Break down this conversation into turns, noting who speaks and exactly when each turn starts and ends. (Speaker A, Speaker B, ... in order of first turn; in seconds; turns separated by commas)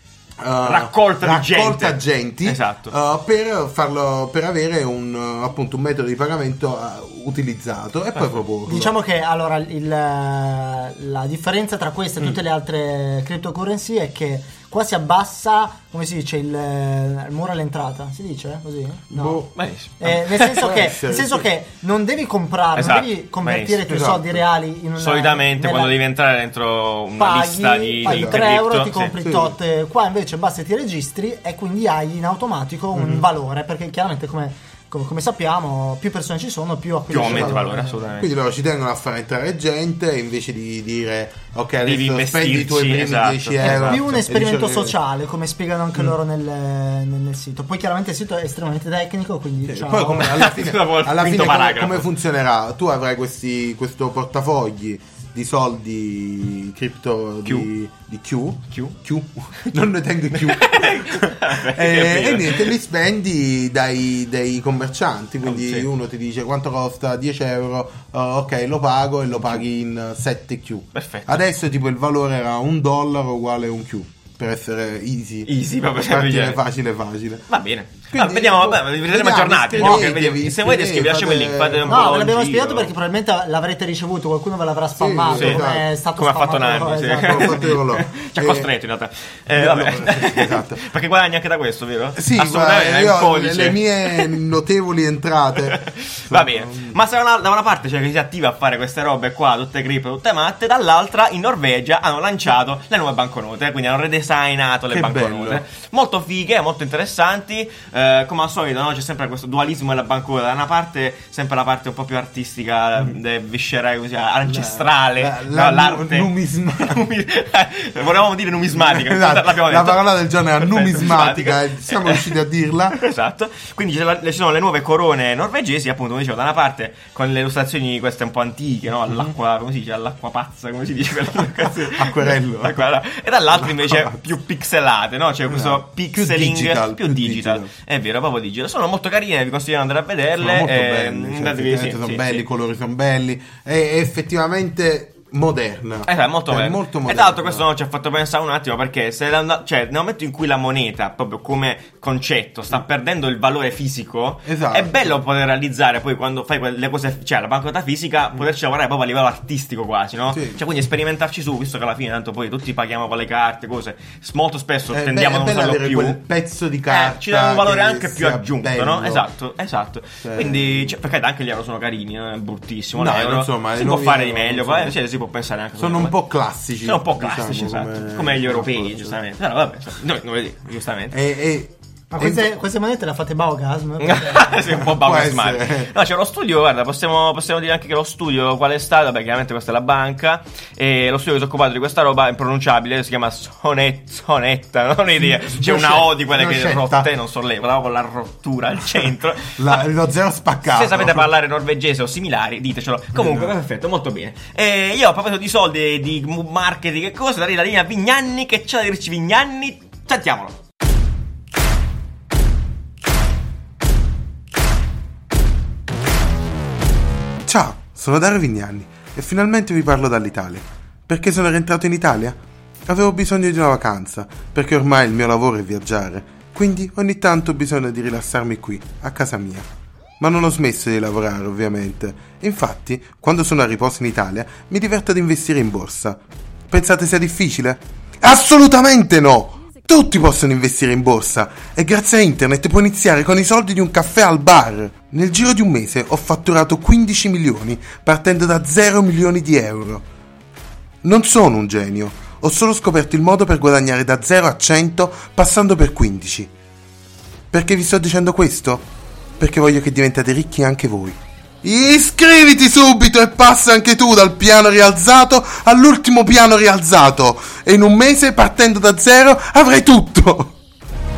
Speaker A: 0.4-8.9, Speaker B: 0.6-2.9, Speaker C: 8.7-19.4, Speaker A: 19.1-19.6, Speaker B: 19.6-20.7, Speaker C: 20.0-26.0, Speaker A: 20.6-21.5, Speaker B: 22.7-23.8, Speaker A: 23.9-24.4, Speaker B: 25.0-29.1, Speaker C: 27.2-38.1, Speaker A: 28.0-28.5, Speaker A: 29.2-29.5, Speaker A: 32.9-33.2, Speaker B: 37.1-38.3, Speaker A: 37.1-37.6, Speaker A: 38.1-45.0, Speaker B: 41.8-44.0, Speaker C: 43.6-50.3, Speaker A: 49.7-77.5, Speaker B: 50.2-52.1, Speaker B: 60.3-62.7, Speaker B: 65.4-65.9, Speaker B: 70.9-71.4, Speaker B: 75.5-76.6, Speaker B: 77.5-82.9, Speaker A: 78.1-82.2, Speaker C: 81.9-87.7, Speaker A: 85.0-85.8, Speaker B: 85.3-85.6, Speaker B: 86.2-94.4, Speaker A: 87.2-88.7, Speaker A: 89.5-90.8, Speaker A: 92.2-97.0, Speaker B: 95.6-122.4, Speaker A: 104.9-105.6, Speaker A: 114.4-117.0, Speaker A: 118.7-123.0, Speaker B: 122.9-142.4, Speaker A: 131.6-132.8, Speaker A: 133.5-134.2, Speaker A: 135.5-137.7, Speaker A: 140.4-147.6, Speaker B: 146.1-166.2, Speaker A: 154.4-155.2, Speaker A: 160.3-160.6, Speaker A: 164.9-169.2, Speaker B: 166.9-176.1, Speaker A: 170.2-170.9, Speaker A: 172.9-174.9, Speaker A: 175.8-179.2, Speaker B: 176.8-181.2, Speaker A: 181.1-182.5, Speaker C: 182.1-184.6, Speaker B: 184.0-199.9, Speaker A: 184.7-185.9, Speaker A: 195.2-197.1, Speaker A: 199.6-201.3, Speaker B: 200.6-210.5, Speaker A: 203.1-203.5, Speaker A: 217.4-229.7, Speaker A: 230.2-236.2, Speaker A: 236.7-250.0, Speaker A: 251.0-256.5, Speaker A: 257.5-258.8, Speaker A: 259.4-270.5